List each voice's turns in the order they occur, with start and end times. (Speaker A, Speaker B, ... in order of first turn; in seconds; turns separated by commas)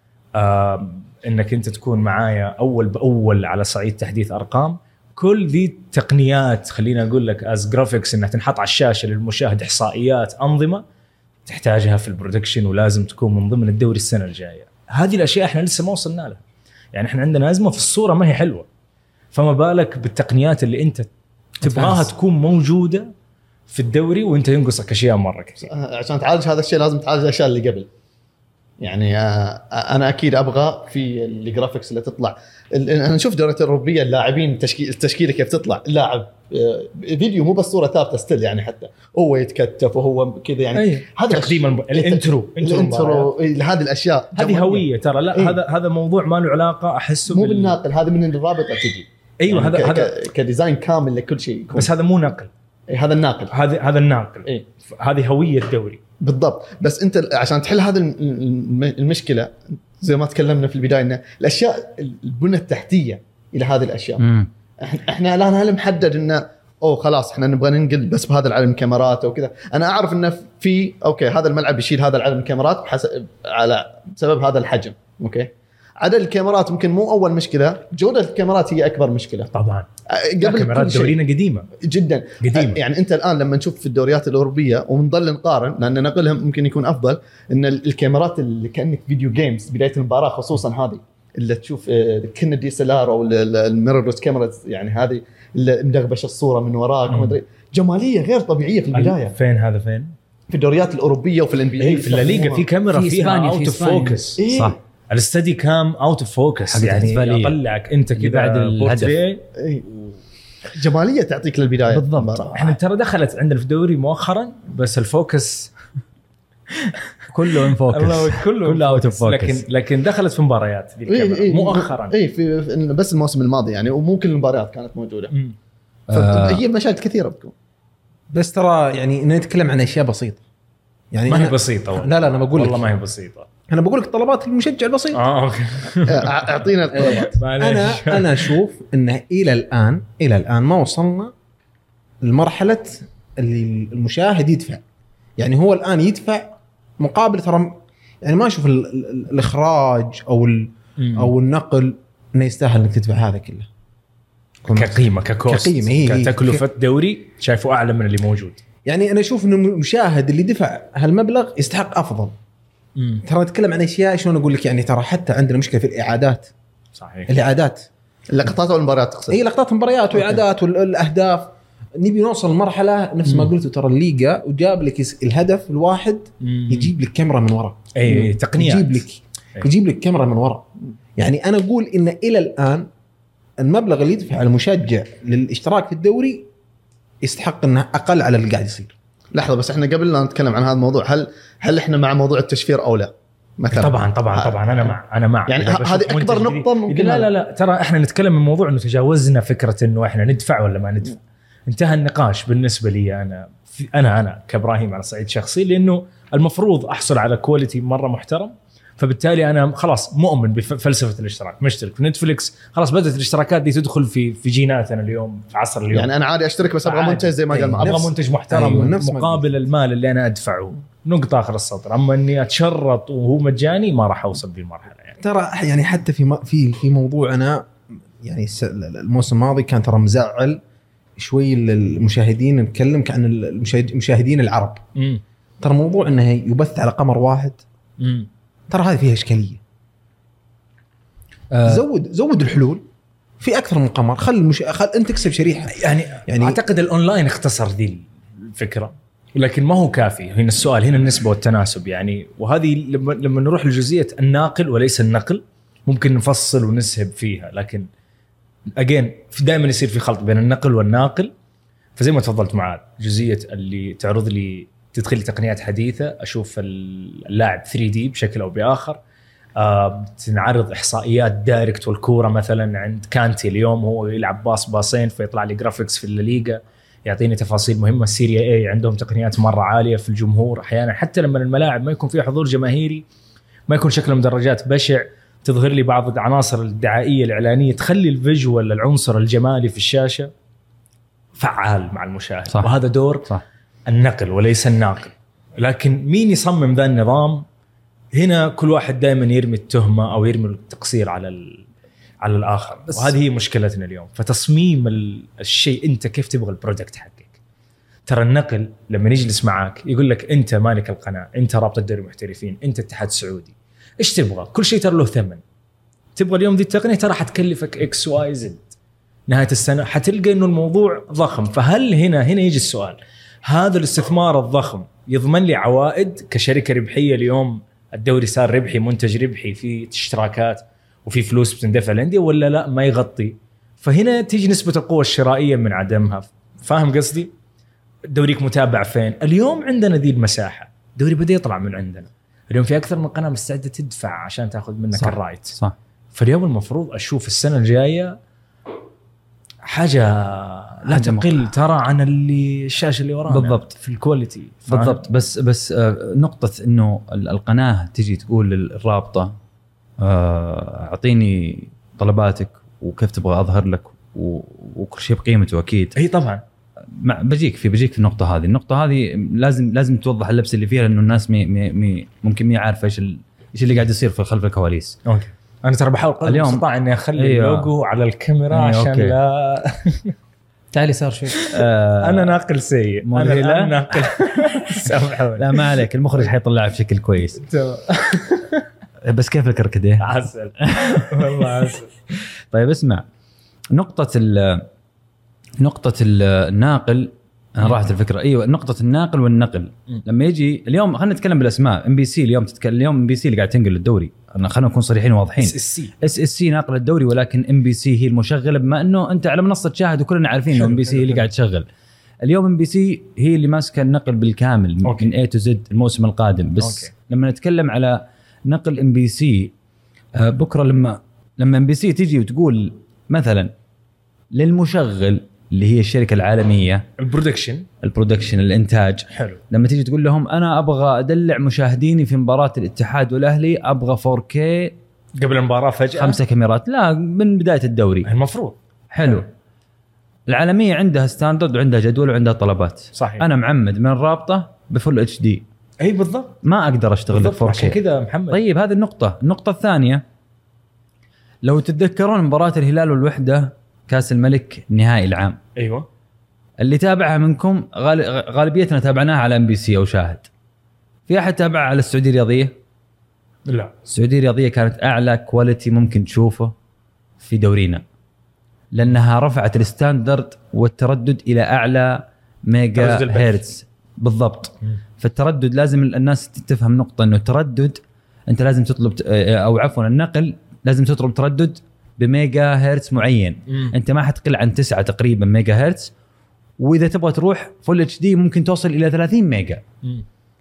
Speaker A: 0.4-10.8, Speaker A: 11.5-16.4, Speaker A: 16.9-18.7, Speaker A: 19.3-21.1, Speaker A: 21.6-23.1, Speaker A: 23.7-25.7, Speaker B: 25.7-27.9, Speaker B: 28.8-45.6, Speaker A: 40.7-43.3, Speaker A: 44.4-47.8, Speaker B: 47.3-51.9, Speaker A: 49.4-50.1, Speaker A: 51.8-52.5, Speaker B: 52.9-53.5, Speaker A: 53.5-56.0, Speaker B: 56.2-64.2, Speaker C: 64.2-64.5, Speaker B: 64.8-79.5, Speaker A: 79.5-79.9, Speaker B: 80.1-81.2, Speaker A: 80.4-81.7, Speaker B: 81.8-99.3, Speaker A: 82.4-82.8, Speaker A: 97.1-97.4, Speaker A: 98.9-100.1, Speaker B: 100.5-102.7, Speaker A: 101.8-104.4, Speaker D: 102.9-104.4, Speaker B: 104.4-104.8, Speaker C: 104.5-104.8, Speaker A: 105.1-110.2, Speaker C: 106.7-107.6, Speaker C: 108.2-109.2, Speaker B: 109.6-109.8, Speaker B: 110.7-112.8, Speaker C: 111.9-112.5, Speaker A: 112.5-115.7, Speaker C: 117.3-119.6, Speaker A: 117.7-122.2, Speaker B: 121.1-125.3, Speaker C: 126.1-126.6, Speaker B: 126.1-127.5, Speaker E: 128.3-130.4, Speaker E: 131.1-132.9, Speaker A: 131.2-133.5, Speaker E: 133.7-135.2, Speaker A: 135.1-138.5, Speaker B: 136.1-137.4, Speaker E: 137.0-141.3, Speaker E: 142.2-144.8, Speaker E: 145.4-153.7, Speaker A: 151.0-151.3, Speaker E: 154.7-156.6, Speaker A: 154.7-158.6, Speaker E: 158.9-162.4, Speaker A: 163.0-163.2, Speaker E: 163.2-166.5, Speaker A: 167.0-167.3, Speaker E: 167.3-167.9, Speaker B: 168.3-169.4, Speaker E: 169.3-180.7, Speaker A: 176.4-176.9, Speaker A: 177.9-179.1, Speaker E: 181.2-182.9, Speaker E: 183.6-186.5, Speaker E: 187.2-188.9, Speaker B: 189.3-194.9, Speaker A: 193.7-216.1, Speaker B: 195.5-197.3, Speaker B: 215.9-218.1, Speaker A: 216.8-225.2, Speaker E: 217.6-219.5, Speaker E: 225.2-230.6, Speaker E: 231.2-234.8, Speaker A: 235.0-235.2, Speaker E: 235.6-237.6, Speaker A: 238.0-238.3, Speaker E: 238.7-239.6, Speaker C: 241.5-241.8, Speaker E: 241.6-242.8, Speaker E: 243.4-246.6, Speaker A: 245.7-257.9, Speaker A: 258.8-261.3, Speaker A: 262.0-269.0, Speaker A: 269.6-283.0, Speaker A: 283.7-290.3, Speaker A: 291.4-293.3, Speaker A: 293.9-297.4, Speaker A: 298.1-301.6, Speaker A: 302.2-307.3, Speaker A: 308.1-315.4, Speaker A: 316.2-318.7, Speaker A: 319.3-337.3, Speaker A: 338.1-345.6, Speaker C: 344.9-345.8, Speaker A: 346.1-348.2, Speaker A: 349.6-355.1, Speaker C: 350.9-351.5, Speaker C: 353.3-353.7, Speaker C: 354.7-359.4, Speaker C: 360.0-366.0, Speaker A: 365.9-366.4, Speaker C: 366.9-375.0, Speaker A: 375.1-380.1, Speaker C: 376.2-376.6, Speaker C: 377.2-377.7, Speaker C: 378.5-379.2, Speaker D: 380.7-381.5, Speaker A: 381.4-385.7, Speaker C: 381.5-382.4, Speaker C: 383.1-383.9, Speaker C: 385.4-387.4, Speaker A: 387.5-388.6, Speaker C: 389.0-391.6, Speaker A: 390.0-391.9, Speaker C: 392.5-393.1, Speaker C: 393.7-394.7, Speaker C: 395.6-411.7, Speaker A: 405.4-405.9, Speaker A: 410.5-411.2, Speaker C: 412.2-419.5, Speaker A: 414.8-415.1, Speaker A: 416.6-416.9, Speaker C: 420.2-423.5, Speaker C: 424.3-426.9, Speaker A: 427.0-427.7, Speaker C: 427.8-434.8, Speaker A: 429.1-429.4, Speaker A: 435.1-436.2, Speaker C: 435.9-438.1, Speaker A: 438.1-438.6, Speaker C: 438.9-439.3, Speaker C: 440.3-445.4, Speaker A: 442.9-443.2, Speaker A: 445.8-446.4, Speaker C: 446.4-447.8, Speaker A: 447.1-448.4, Speaker C: 448.3-450.0, Speaker C: 451.4-455.4, Speaker A: 455.6-455.9, Speaker C: 456.6-460.3, Speaker C: 461.1-462.5, Speaker A: 463.5-463.7, Speaker C: 463.9-466.6, Speaker C: 467.2-467.8, Speaker C: 468.7-485.9, Speaker A: 472.8-473.4, Speaker A: 483.5-483.7, Speaker C: 486.6-489.6